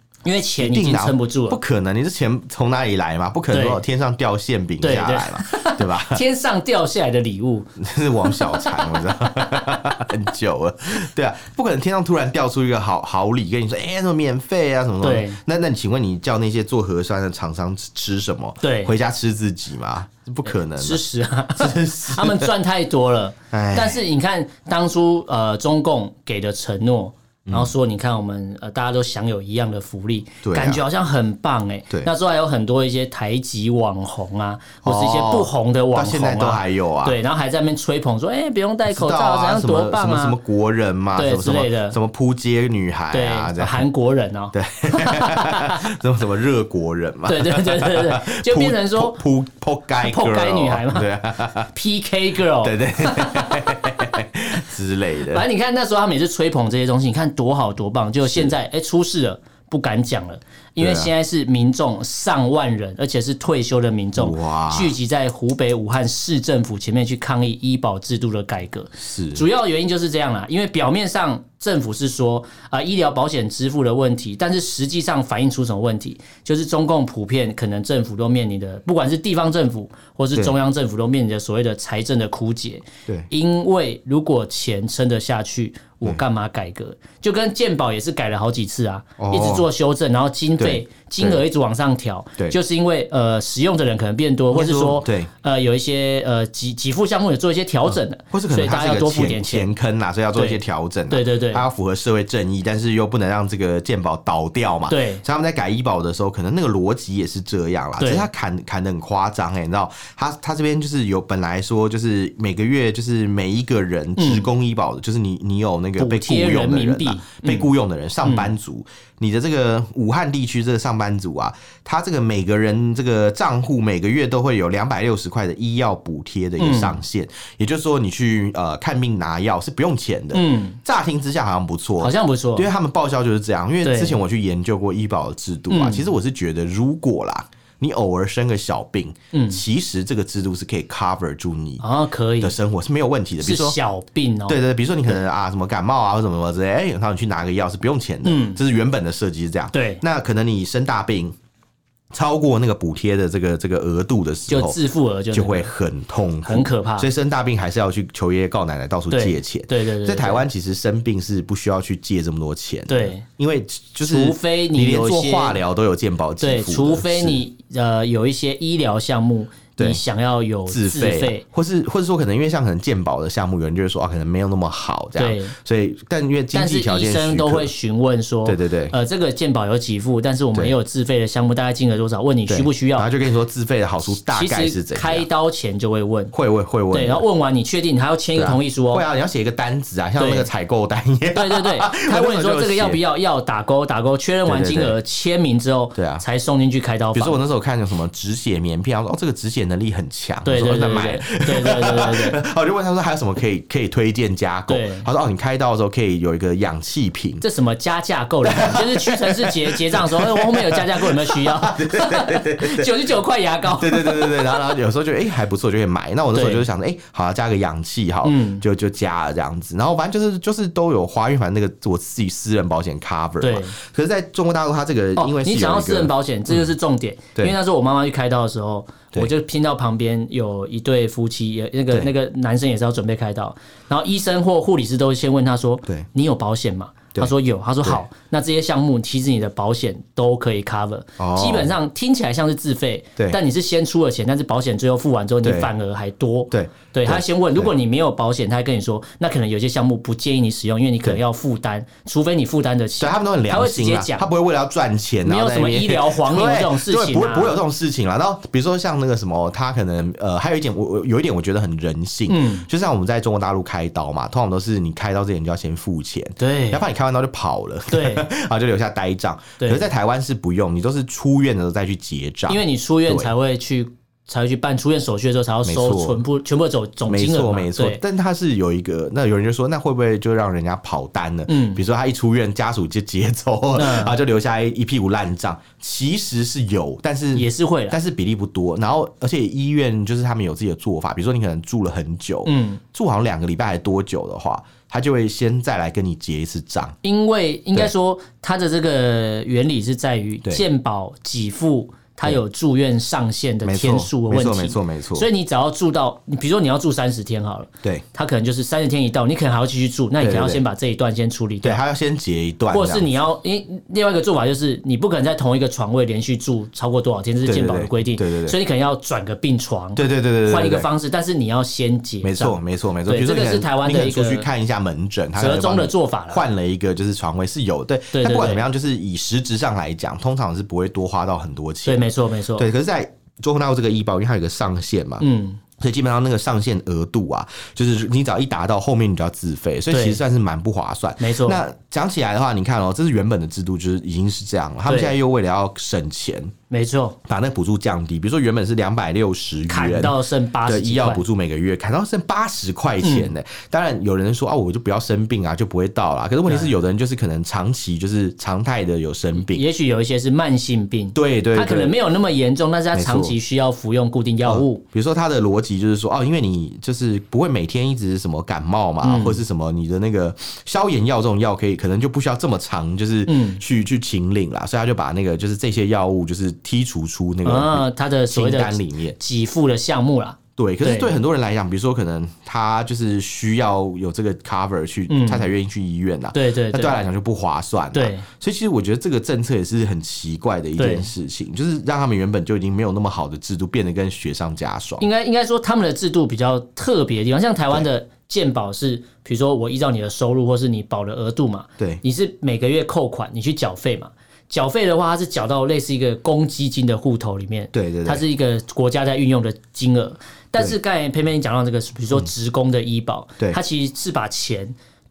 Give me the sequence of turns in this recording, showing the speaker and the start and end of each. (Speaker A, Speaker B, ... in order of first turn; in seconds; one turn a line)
Speaker A: 0.2-1.6
Speaker B: 0.6-6.2
Speaker A: 3.5-3.8
Speaker A: 4.8-7.7
Speaker B: 7.8-21.0
Speaker A: 8.2-9.6
Speaker A: 15.0-15.4
Speaker A: 18.6-18.9
Speaker A: 20.8-40.4
Speaker B: 21.6-22.5
Speaker B: 23.5-24.0
Speaker B: 27.4-27.7
Speaker B: 30.4-30.8
Speaker B: 34.8-37.2
Speaker B: 38.9-43.9
Speaker A: 41.1-42.0
Speaker A: 43.1-45.8
Speaker B: 44.5-51.7
Speaker A: 47.3-49.2
Speaker A: 50.0-51.1
Speaker A: 51.7-53.8
Speaker B: 52.6-55.4
Speaker A: 55.3-99.7
Speaker B: 58.2-58.5
Speaker B: 60.8-61.1
Speaker B: 64.2-65.0
Speaker B: 69.0-69.4
Speaker B: 89.2-89.7
Speaker B: 90.6-91.4
Speaker B: 94.5-95.3
Speaker B: 97.9-141.8
Speaker A: 100.3-101.6
Speaker A: 104.9-105.2
Speaker A: 108.0-108.3
Speaker A: 114.2-114.5
Speaker A: 116.0-117.7
Speaker A: 118.2-118.5
Speaker A: 126.6-127.0
Speaker A: 130.3-130.8
Speaker A: 132.0-132.7
Speaker A: 133.8-134.2
Speaker A: 135.7-136.1
Speaker A: 139.3-139.6
Speaker A: 141.8-142.5
Speaker B: 142.4-143.8
Speaker A: 143.4-144.6
Speaker B: 144.5-151.3
Speaker A: 148.2-148.6
Speaker A: 149.7-150.0
Speaker B: 152.1-154.8
Speaker A: 154.5-155.7
Speaker B: 155.3-167.4
Speaker A: 156.4-157.1
Speaker A: 159.1-160.4
Speaker A: 162.9-163.2
Speaker A: 164.0-165.6
Speaker A: 166.4-171.4
Speaker B: 170.7-177.7
Speaker A: 175.2-175.5
Speaker A: 176.5-183.1
Speaker B: 178.4-178.9
Speaker B: 182.5-185.3
Speaker A: 184.2-186.3
Speaker B: 186.3-187.2
Speaker A: 186.9-189.0
Speaker B: 188.3-193.0
Speaker A: 190.2-190.5
Speaker A: 191.3-197.4
Speaker B: 194.4-194.9
Speaker B: 195.9-196.2
Speaker B: 197.1-207.4
Speaker A: 200.4-202.4
Speaker A: 204.7-205.1
Speaker A: 207.4-214.5
Speaker B: 208.4-213.1
Speaker B: 213.7-226.7
Speaker A: 216.3-216.7
Speaker A: 218.2-218.6
Speaker A: 223.4-223.8
Speaker A: 225.2-254.3
Speaker B: 241.2-241.7
Speaker B: 245.4-245.7
Speaker B: 246.5-247.7
Speaker B: 253.0-273.3
Speaker A: 255.2-257.6
Speaker A: 262.3-262.7
Speaker A: 266.4-266.8
Speaker A: 267.9-268.3
Speaker A: 269.6-269.9
Speaker A: 272.5-278.0
Speaker B: 275.6-276.2
Speaker B: 277.1-296.9
Speaker A: 281.5-281.8
Speaker A: 283.8-284.2
Speaker A: 287.3-288.0
Speaker A: 292.4-292.8
Speaker A: 297.0-311.8
Speaker B: 303.6-305.3
Speaker B: 310.2-310.6
Speaker B: 311.6-313.1
Speaker A: 312.7-324.5
Speaker B: 317.4-318.6
Speaker B: 319.9-320.9
Speaker B: 322.2-332.0
Speaker A: 325.4-326.4
Speaker A: 328.1-328.6
Speaker A: 331.8-332.7
Speaker B: 332.6-335.2
Speaker A: 335.2-335.6
Speaker B: 335.8-346.5
Speaker A: 339.9-340.2
Speaker A: 341.2-341.6
Speaker A: 344.9-345.1
Speaker A: 346.7-347.2
Speaker B: 347.2-359.6
Speaker A: 349.7-351.2
Speaker A: 353.0-353.3
Speaker A: 356.4-356.7
Speaker A: 359.4-364.8
Speaker B: 361.1-362.0
Speaker B: 362.9-363.3
Speaker B: 364.4-379.2
Speaker A: 369.0-369.4
Speaker A: 373.3-373.6
Speaker A: 377.4-381.1
Speaker B: 380.6-395.1
Speaker A: 385.1-385.5
Speaker A: 386.3-387.0
Speaker A: 387.9-388.2
Speaker A: 390.8-391.1
Speaker A: 395.0-414.7
Speaker B: 407.7-408.2